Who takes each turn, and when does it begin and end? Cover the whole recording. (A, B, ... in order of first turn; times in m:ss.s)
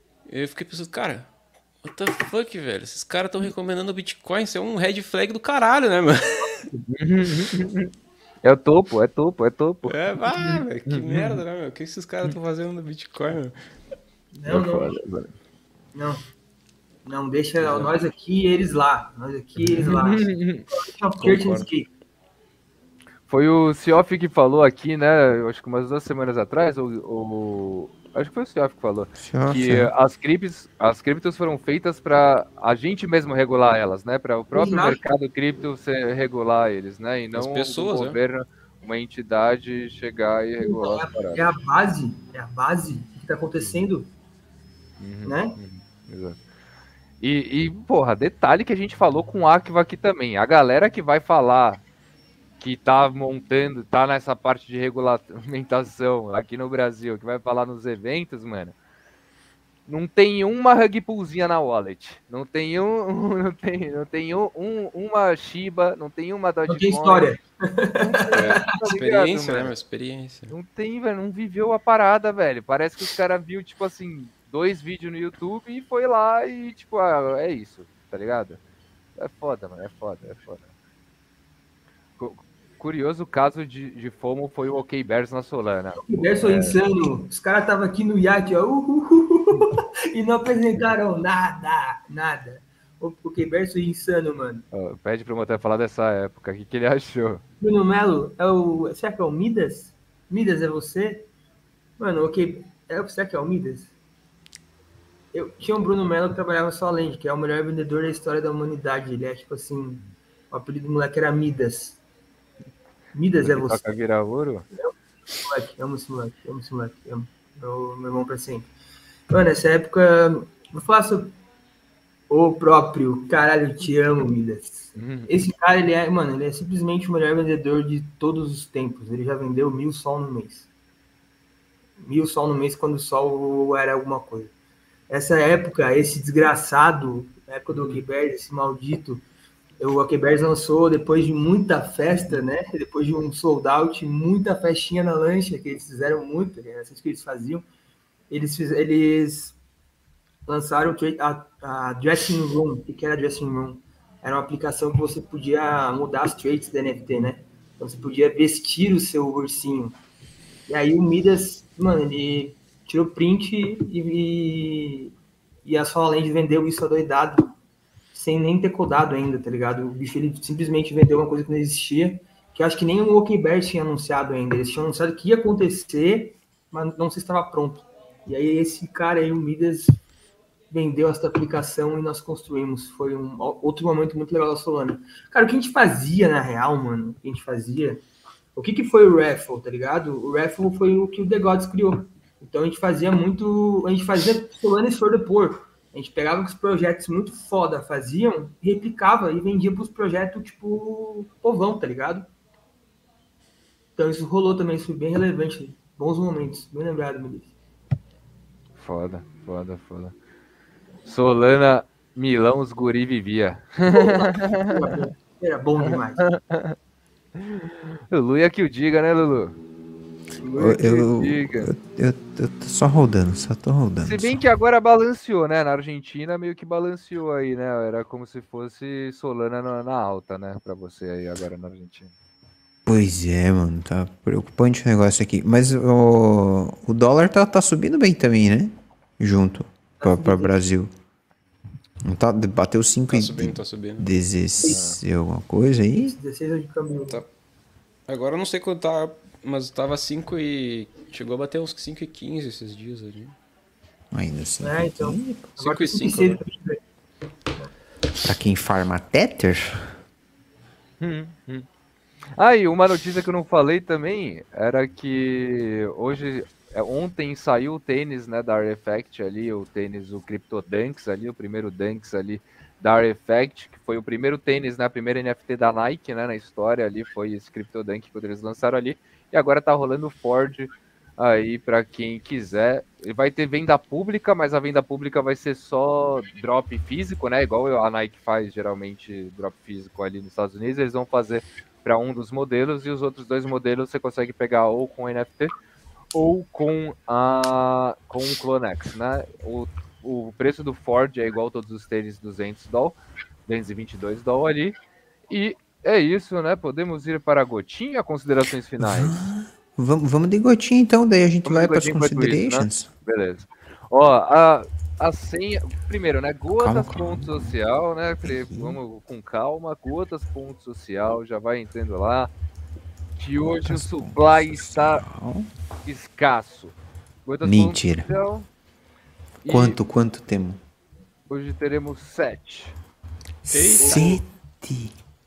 0:00.3-0:01.3 A
0:01.8-0:06.5 A
0:06.4-0:06.9 B
0:06.9-0:07.9 C
0:08.4-0:11.4 C
0:09.8-0:13.6 A
0:14.3-0:14.9 B
0:14.5-0:15.3 C
0:15.9-0:16.2 B
0:17.0-0:21.9 B
0:17.6-0:17.9 C
0:19.6-0:20.7 C
0:21.2-0:21.7 A
0:23.3-0:41.4 C
0:29.2-0:29.9 D
0:34.5-0:35.0 B
0:37.4-0:38.2 A
0:40.6-0:44.1 B
0:43.6-0:43.8 C
0:45.0-0:46.4 C
0:45.2-0:45.6 B
0:47.2-0:51.8 C
0:52.6-0:58.8 C
0:59.9-1:07.3 C
1:06.7-1:08.5 B
1:08.0-1:09.7 C
1:08.3-1:10.5 A
1:10.5-1:18.6 C
1:19.2-1:20.7 C
1:22.2-1:26.8 C
1:26.1-1:34.7 B
1:34.7-1:37.4 C
1:37.6-1:41.3 B
1:42.0-1:43.9 B
1:45.3-1:52.0 B
1:53.1-1:53.8 B
1:53.4-1:54.7 C
1:54.8-1:58.7 B
1:59.3-2:01.4 B
2:02.3-2:10.7 B
2:05.0-2:05.3 C
2:12.0-2:14.5 B
2:15.1-2:19.2 B
2:17.7-2:18.0 C
2:19.8-2:27.7 B
2:28.3-2:29.6 B
2:30.5-2:40.0 B
2:40.7-2:45.1 B
2:45.6-2:47.5 B
2:48.1-3:00.0 B
3:00.7-3:08.0 B
3:08.6-3:22.3 B
3:24.0-3:27.6 B
3:28.8-3:30.2 C
3:31.1-3:35.0 C
3:33.9-3:36.2 B
3:35.8-3:36.8 C
3:37.4-3:39.6 C
3:40.4-3:40.7 B
3:40.6-3:44.4 D
3:40.6-3:41.7 C
3:44.0-3:52.1 C
3:52.9-4:00.9 D
4:00.0-4:00.6 B
4:02.0-4:06.2 D
4:03.1-4:04.1 A
4:04.6-4:05.0 C
4:06.0-4:07.2 B
4:08.1-4:13.4 A
4:14.1-4:15.5 D
4:14.6-4:16.8 B
4:15.6-4:16.4 A
4:18.2-4:20.0 D
4:21.0-4:21.7 C
4:22.4-4:55.5 C
4:56.1-5:04.8 C
5:05.3-5:09.2 C
5:08.8-5:12.9 D
5:11.4-5:22.3 C
5:16.5-5:17.5 D
5:18.2-5:18.8 D
5:23.2-5:25.0 C
5:23.6-5:25.5 D
5:25.8-5:28.5 C
5:27.4-5:28.1 D
5:29.4-5:29.8 C
5:29.4-5:30.6 D
5:31.3-5:32.8 C
5:33.5-5:35.0 D
5:33.5-5:34.2 A
5:33.8-5:34.2 C